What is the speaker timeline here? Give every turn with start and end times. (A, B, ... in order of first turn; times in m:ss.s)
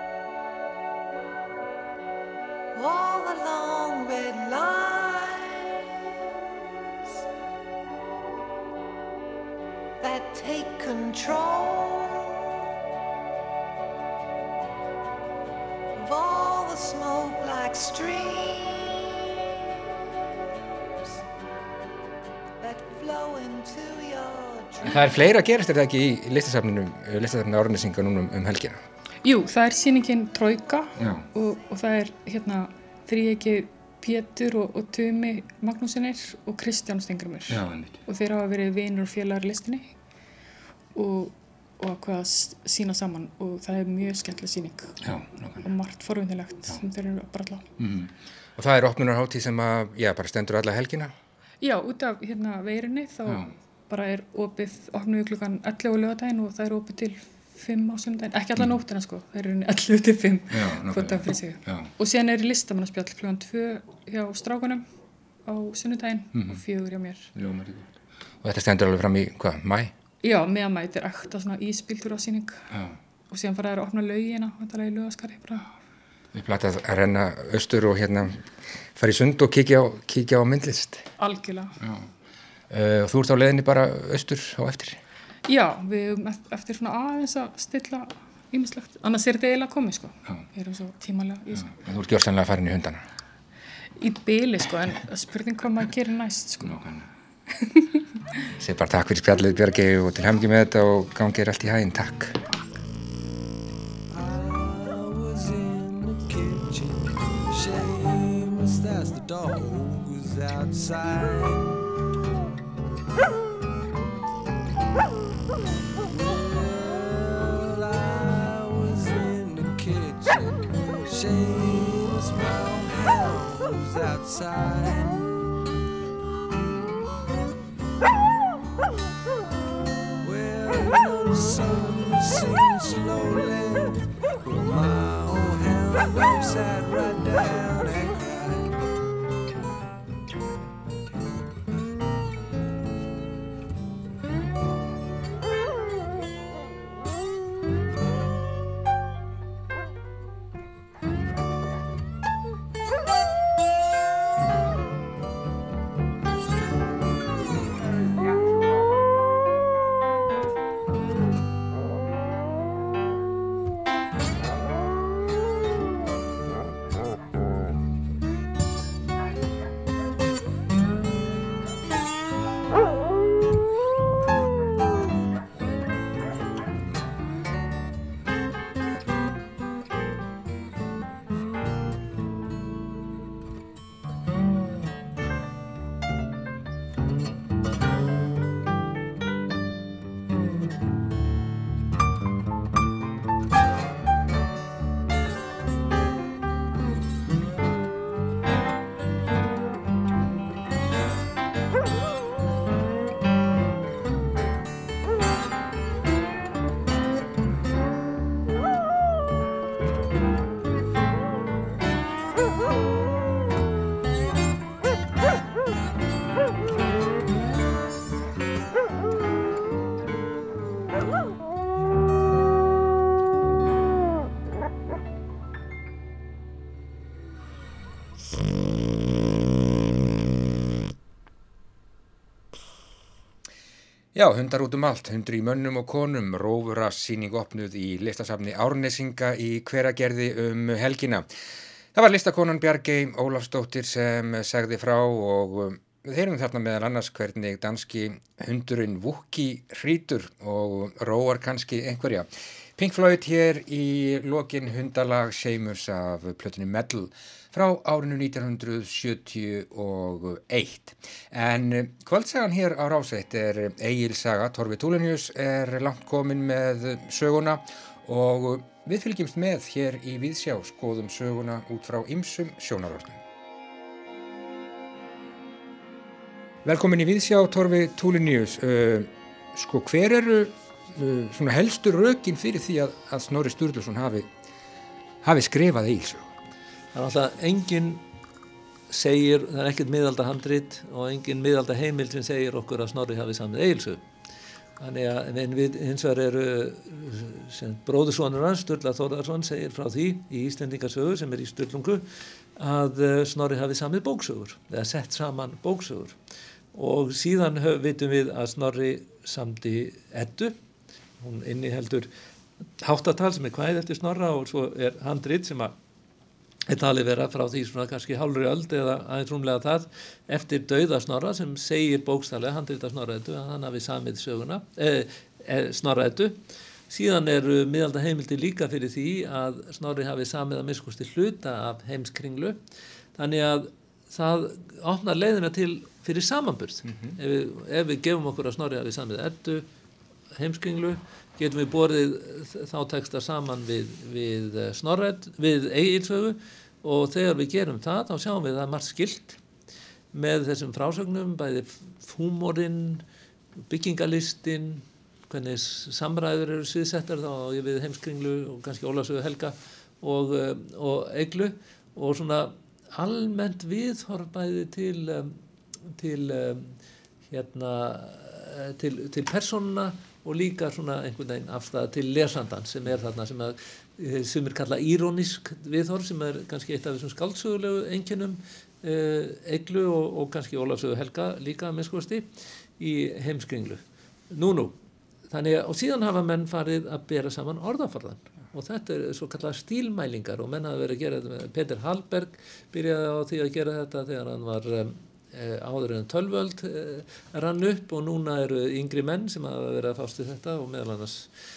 0:02.7-0:06.1 A
0:10.0-0:12.6 A
0:15.9-0:19.3 A
0:22.6-0:25.1 A
0:24.8-0:28.8 B
0:29.2-0:39.9 C
0:31.0-0:31.2 B
0:37.5-0:38.0 B
0:40.9-0:45.0 C
0:45.0-0:45.7 B
0:45.6-0:47.6 C
0:47.8-0:51.1 B
0:51.6-1:04.8 C
0:53.3-0:53.5 B
1:00.5-1:01.9 B
1:05.4-1:07.3 C
1:06.3-1:06.6 B
1:07.3-1:07.9 B
1:08.4-1:09.9 B
1:10.2-1:12.7 C
1:12.7-1:13.0 B
1:13.3-1:15.7 C
1:16.3-1:21.1 B
1:21.2-1:21.8 C
1:21.8-1:22.1 B
1:22.7-1:25.0 B
1:25.4-1:31.7 C
1:31.6-1:33.0 B
1:34.0-1:36.8 C
1:36.6-1:37.1 B
1:38.6-1:42.4 B
1:44.1-1:51.9 D
1:56.0-2:05.4 D
2:10.2-2:18.8 D
3:54.1-4:01.3 B
4:01.9-4:33.2 B
4:36.6-4:44.3 B
4:45.2-4:46.3 B
4:46.9-4:48.0 E
4:48.9-4:54.0 E
4:54.8-5:06.2 E
5:06.7-5:10.5 E
5:11.2-5:12.1 E
5:12.8-5:15.7 E
5:16.7-5:32.6 E
5:33.1-5:39.7 E
5:36.9-5:37.1 B
5:40.3-5:49.4 E
5:50.1-5:53.0 E
5:53.7-6:05.4 E
6:05.9-6:06.8 E
6:07.3-6:24.7 E
6:25.3-6:41.3 E